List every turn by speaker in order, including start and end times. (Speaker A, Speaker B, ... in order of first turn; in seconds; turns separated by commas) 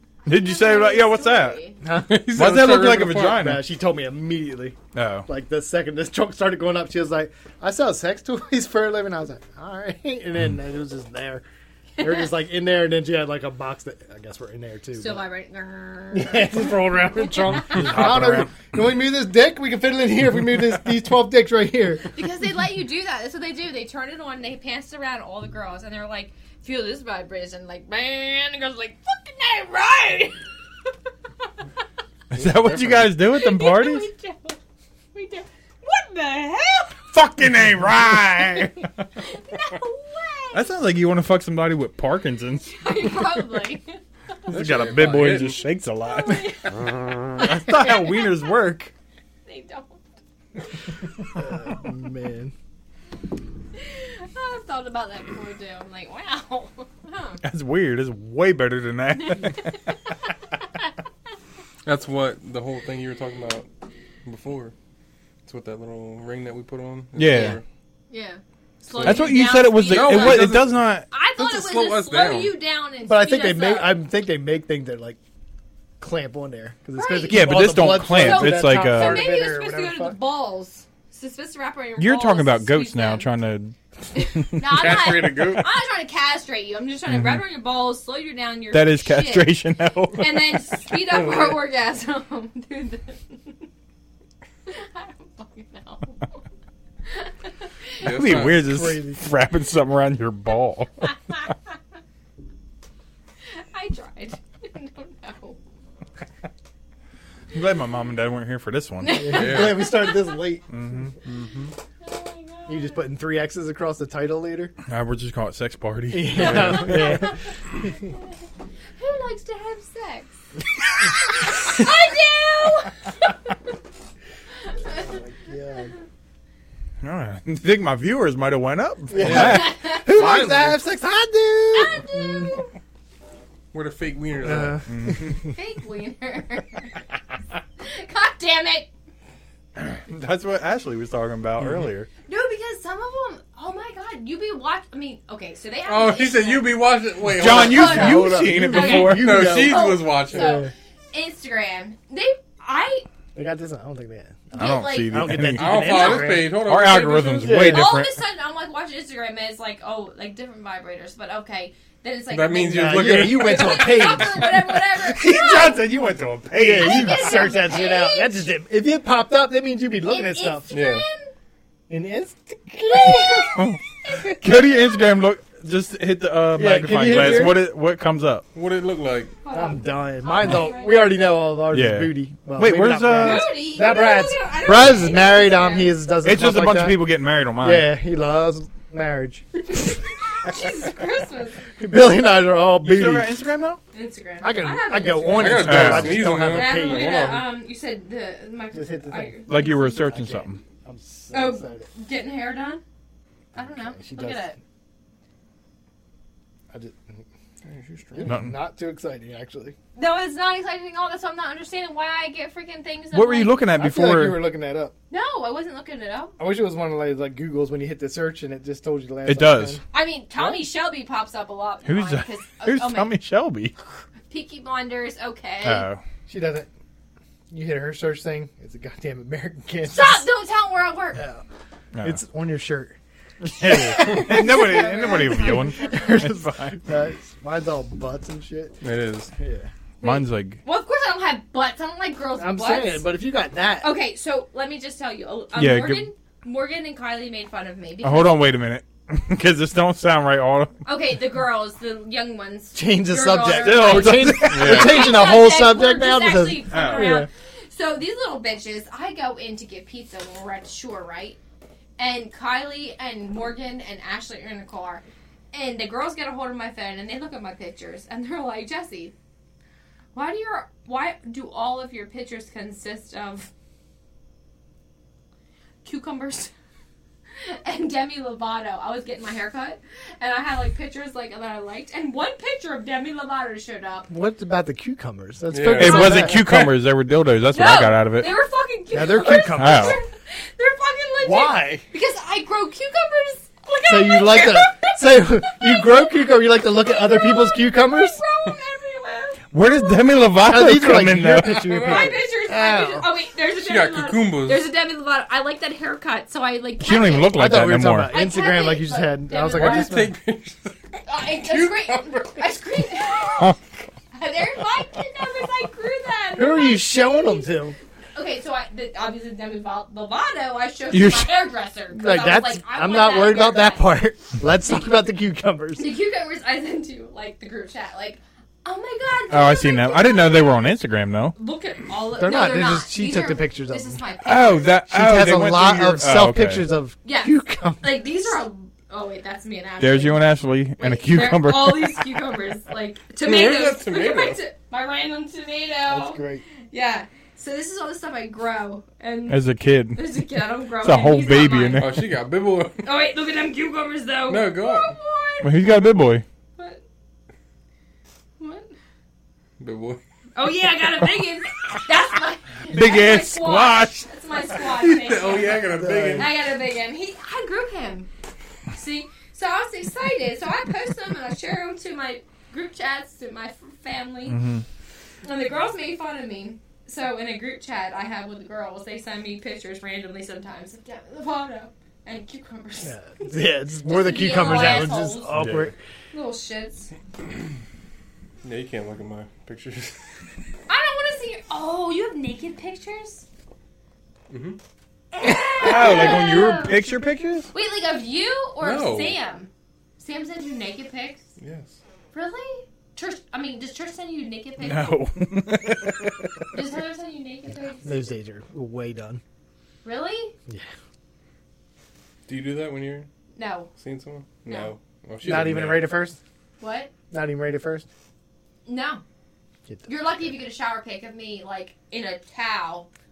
Speaker A: 0.3-1.6, Speaker B: 0.3-1.8, Speaker C: 1.8-2.4, Speaker D: 2.1-3.5, Speaker A: 2.3-3.6, Speaker C: 3.2-11.4, Speaker A: 4.9-5.3, Speaker C: 12.0-15.2, Speaker B: 12.0-12.3, Speaker B: 14.9-18.0, Speaker C: 16.1-22.1, Speaker A: 17.7-18.6, Speaker B: 22.1-30.4, Speaker A: 32.3-34.1, Speaker D: 32.5-33.1, Speaker B: 33.3-34.6, Speaker B: 35.1-37.1, Speaker A: 37.1-39.1, Speaker B: 39.2-40.7, Speaker A: 40.5-43.2, Speaker B: 42.7-44.0, Speaker D: 44.5-45.6, Speaker A: 44.5-46.6, Speaker B: 46.0-48.5, Speaker A: 47.3-48.9, Speaker B: 49.5-50.0, Speaker C: 51.3-52.5, Speaker B: 53.8-57.4, Speaker A: 57.4-60.1, Speaker D: 61.9-63.7, Speaker D: 64.2-64.7, Speaker D: 65.5-67.6, Speaker A: 67.2-67.6, Speaker B: 67.3-67.6, Speaker B: 68.1-74.0, Speaker D: 68.9-70.8, Speaker A: 69.0-71.1, Speaker D: 71.4-72.5, Speaker C: 73.0-75.2, Speaker C: 76.0-80.2, Speaker B: 77.0-83.3, Speaker A: 77.3-79.3, Speaker A: 82.0-85.1, Speaker B: 84.1-89.6, Speaker D: 84.7-85.7, Speaker A: 87.1-87.4, Speaker A: 88.7-90.6, Speaker B: 90.2-93.6, Speaker D: 91.1-91.6, Speaker B: 94.7-96.4, Speaker B: 97.1-98.1, Speaker D: 98.0-98.7, Speaker A: 98.0-101.5, Speaker C: 98.5-99.3, Speaker B: 103.5-105.6, Speaker A: 107.5-109.4, Speaker B: 109.0-110.3, Speaker C: 109.1-110.7, Speaker D: 109.3-109.9, Speaker A: 110.7-111.1, Speaker D: 111.2-111.8, Speaker B: 112.0-113.0, Speaker C: 112.7-114.7, Speaker A: 114.9-117.3, Speaker C: 116.1-118.1, Speaker D: 116.4-116.8, Speaker B: 116.6-118.2, Speaker B: 119.0-120.3, Speaker B: 121.0-123.5, Speaker B: 124.7-125.2, Speaker C: 124.9-125.9, Speaker A: 127.0-130.8, Speaker C: 129.1-132.6, Speaker D: 129.2-129.5, Speaker B: 129.3-130.4, Speaker B: 131.7-132.7, Speaker D: 133.7-134.8, Speaker C: 134.4-135.5, Speaker A: 134.9-135.4, Speaker B: 135.5-137.0, Speaker B: 137.8-138.9, Speaker A: 139.8-142.1, Speaker B: 142.3-146.8, Speaker D: 145.9-148.3, Speaker A: 147.3-149.5, Speaker B: 147.5-153.1, Speaker C: 147.6-150.7, Speaker D: 148.9-150.6, Speaker C: 153.3-156.6, Speaker B: 154.5-156.3, Speaker A: 154.6-158.1, Speaker D: 155.5-157.7, Speaker C: 157.4-157.9, Speaker B: 157.7-165.9, Speaker D: 162.3-164.2, Speaker C: 162.7-164.6, Speaker A: 165.0-167.6, Speaker C: 166.6-170.7, Speaker B: 166.8-168.4, Speaker B: 170.1-171.3, Speaker D: 170.7-171.1, Speaker C: 171.9-173.7, Speaker B: 172.9-175.0, Speaker A: 173.5-178.4, Speaker C: 176.5-177.6, Speaker D: 177.1-177.4, Speaker D: 178.5-179.3, Speaker B: 179.4-181.1, Speaker C: 179.5-190.0, Speaker A: 181.7-183.5, Speaker B: 183.2-186.0, Speaker A: 186.2-187.9, Speaker B: 190.2-191.7, Speaker C: 191.8-193.3, Speaker A: 192.8-193.8, Speaker B: 193.9-200.0, Speaker C: 194.4-197.2, Speaker D: 195.3-197.5, Speaker A: 195.6-196.3, Speaker C: 198.7-201.9, Speaker A: 199.5-200.6, Speaker B: 201.3-202.8, Speaker C: 203.6-204.4, Speaker B: 203.6-204.6, Speaker C: 206.7-207.2, Speaker D: 207.7-208.3, Speaker C: 208.1-209.8, Speaker A: 208.3-208.6, Speaker B: 209.9-213.6, Speaker A: 213.1-214.4, Speaker C: 213.7-214.9, Speaker B: 215.1-216.4, Speaker C: 216.4-219.8, Speaker A: 219.2-219.8, Speaker B: 219.9-223.2, Speaker A: 221.8-223.8, Speaker B: 224.3-225.9, Speaker A: 225.6-226.0, Speaker C: 226.3-226.7, Speaker C: 227.5-230.2, Speaker B: 229.9-231.2, Speaker C: 231.2-231.4, Speaker C: 232.0-238.8, Speaker A: 233.5-236.8, Speaker B: 234.0-236.1, Speaker D: 238.8-239.3, Speaker C: 239.3-239.7, Speaker B: 240.0-243.1, Speaker A: 240.0-240.6, Speaker C: 242.4-243.9, Speaker B: 243.8-248.4, Speaker A: 245.5-246.1, Speaker A: 248.0-250.8, Speaker B: 250.9-261.4, Speaker C: 252.7-257.3, Speaker A: 253.5-255.2, Speaker D: 254.6-254.9, Speaker A: 256.7-257.2, Speaker B: 262.0-269.1, Speaker B: 270.1-273.5, Speaker B: 275.8-276.5, Speaker B: 277.4-284.1, Speaker C: 284.1-286.5, Speaker D: 285.5-286.7, Speaker A: 285.7-288.3, Speaker B: 287.5-300.1, Speaker C: 288.9-290.0, Speaker A: 289.5-290.0, Speaker C: 291.2-291.8, Speaker C: 293.9-298.2, Speaker A: 299.5-301.8, Speaker C: 300.4-303.1, Speaker D: 301.4-302.2, Speaker B: 301.8-307.6, Speaker D: 303.6-304.6, Speaker A: 306.8-308.1, Speaker C: 307.3-310.1, Speaker B: 308.1-310.0, Speaker D: 309.5-312.4, Speaker B: 311.1-313.6, Speaker B: 314.1-317.5, Speaker C: 316.3-317.8, Speaker B: 318.1-323.9, Speaker A: 320.9-321.3, Speaker C: 321.9-325.9, Speaker B: 325.8-330.7, Speaker A: 329.3-331.4, Speaker B: 331.4-334.8, Speaker C: 332.2-334.0, Speaker A: 334.2-336.6, Speaker C: 334.9-338.1, Speaker B: 337.1-351.9, Speaker A: 339.8-342.1, Speaker D: 343.2-344.4, Speaker C: 345.9-346.4, Speaker A: 349.3-350.2, Speaker A: 350.8-352.1, Speaker D: 351.8-352.9, Speaker B: 352.8-355.8, Speaker D: 354.3-354.9, Speaker A: 355.4-356.2, Speaker B: 356.6-356.8, Speaker B: 358.4-358.8, Speaker D: 359.6-360.0, Speaker B: 360.4-368.1, Speaker A: 362.7-364.1, Speaker D: 364.6-366.4, Speaker C: 365.6-366.3, Speaker B: 368.7-374.4, Speaker A: 374.3-374.6, Speaker B: 375.2-385.4, Speaker C: 382.8-385.8, Speaker A: 384.4-385.7, Speaker B: 386.1-386.9, Speaker D: 388.4-390.0, Speaker B: 390.7-393.3, Speaker D: 394.3-394.6, Speaker B: 395.1-396.9, Speaker A: 395.4-397.5, Speaker B: 397.5-401.2, Speaker D: 398.6-399.2, Speaker D: 401.4-401.8, Speaker B: 402.1-405.0, Speaker A: 404.6-406.3, Speaker B: 406.5-408.0, Speaker C: 407.8-409.2, Speaker B: 409.8-410.3, Speaker D: 412.3-413.1, Speaker B: 413.4-413.7, Speaker D: 413.8-415.9, Speaker B: 414.5-414.7, Speaker C: 415.2-416.2, Speaker B: 416.6-416.9, Speaker C: 417.1-417.9, Speaker B: 418.7-419.0, Speaker B: 419.9-422.9